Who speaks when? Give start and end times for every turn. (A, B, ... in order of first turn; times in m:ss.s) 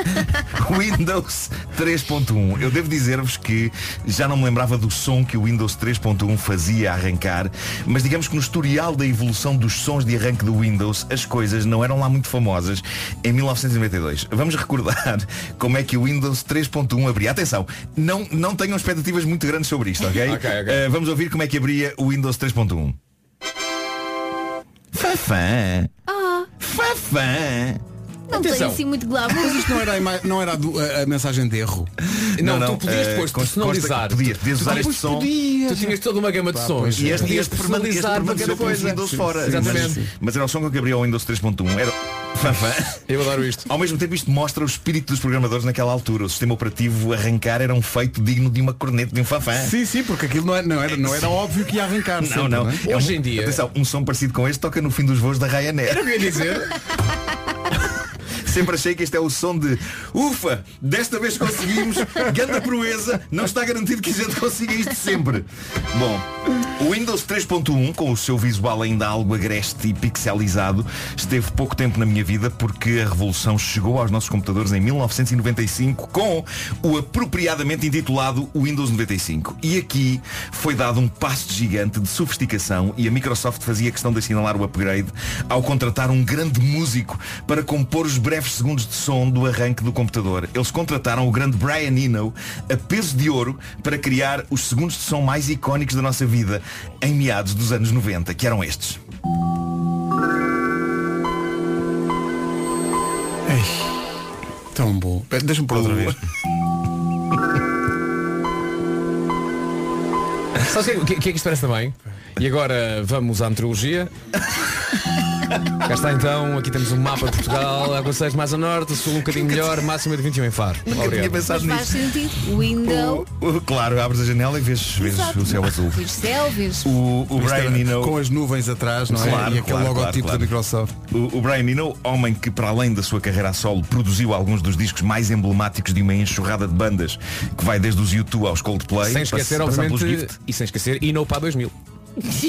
0:00.2-0:23.0 A
0:20.2-0:20.8 B
0:24.9-0:25.9 A
0:26.1-0:26.5 C
0:26.6-0:27.8 A
0:28.3-0:29.9 C
0:28.3-0:28.8 B
0:29.3-0:31.9 D
0:32.2-0:35.3 A
0:32.4-0:40.0 B
0:34.6-0:36.0 D
0:36.5-0:37.5 D
0:37.0-0:43.0 A
0:38.2-0:40.1 D
0:43.1-0:43.7 B
0:43.7-0:49.7 A
0:49.6-0:52.8 D
0:51.0-0:51.3 A
0:52.2-0:56.2 A
0:52.8-0:53.6 B
0:55.9-0:56.8 B
0:58.4-1:39.0 A
1:43.4-1:44.0 D
1:44.7-1:46.2 D
1:50.6-1:54.1 B
1:55.8-2:01.4 B
2:00.9-2:02.1 A
2:01.4-2:03.3 C
2:02.7-2:06.1 A
2:05.0-2:07.0 C
2:06.8-2:08.2 A
2:07.3-2:11.0 D
2:09.1-2:10.5 A
2:11.1-2:20.3 A
2:19.0-2:21.7 B